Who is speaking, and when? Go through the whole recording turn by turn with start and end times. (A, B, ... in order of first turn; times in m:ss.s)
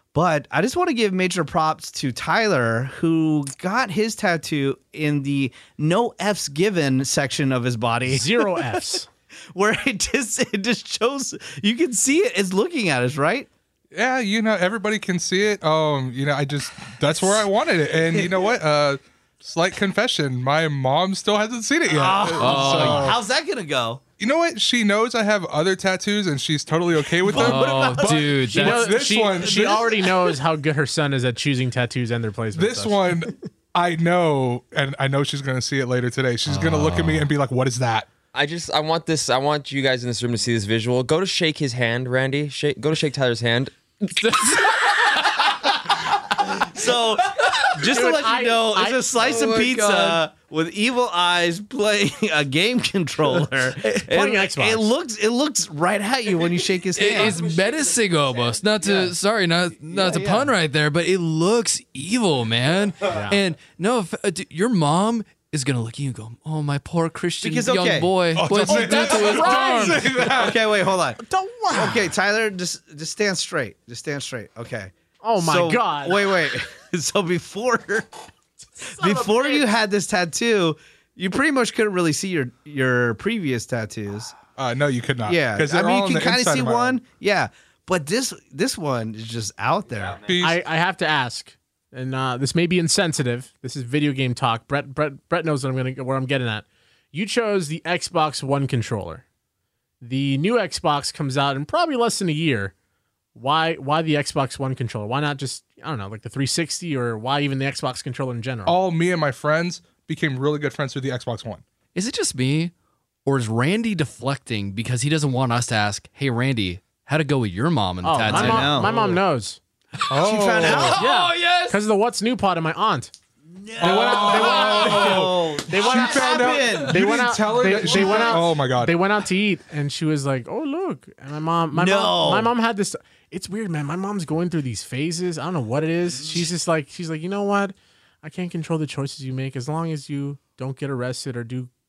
0:00.1-0:09.0 A
0:08.0-0:09.0 B
0:09.5-0:13.5 A
0:13.9-0:23.2 C
0:18.1-0:18.4 A
0:21.8-0:24.0 A
0:22.4-0:23.1 D
0:24.2-0:29.9 C
0:27.2-0:28.3 A
0:27.3-0:28.9 D
0:28.5-0:33.1 B
0:32.5-0:38.1 C
0:36.5-0:37.3 D
0:38.3-0:43.7 E
0:46.5-0:57.4 A
0:47.9-0:49.1 B
0:49.2-0:50.2 D
0:54.0-0:54.9 B
0:57.0-1:10.1 D
0:58.8-0:59.1 A
0:59.9-1:00.5 A
1:03.1-1:03.4 B
1:07.4-1:08.2 A
1:08.3-1:10.8 C
1:08.5-1:10.1 B
1:10.1-1:18.1 A
1:11.2-1:12.1 B
1:15.2-1:16.2 B
1:18.8-1:19.7 B
1:18.9-1:24.4 A
1:24.6-1:27.0 C
1:25.2-1:30.2 A
1:30.2-1:30.6 C
1:30.4-1:39.2 B
1:40.0-1:42.7 B
1:43.3-1:48.8 B
1:48.6-1:51.6 C
1:51.9-1:52.7 D
1:53.2-1:59.0 D
1:58.0-1:59.6 B
1:58.3-1:58.9 A
2:00.1-2:01.0 C
2:00.2-2:01.0 A
2:00.2-2:01.8 D
2:00.9-2:03.1 B
2:03.5-2:06.9 A
2:03.8-2:09.0 C
2:03.8-2:21.7 B
2:07.9-2:08.3 A
2:11.7-2:12.5 A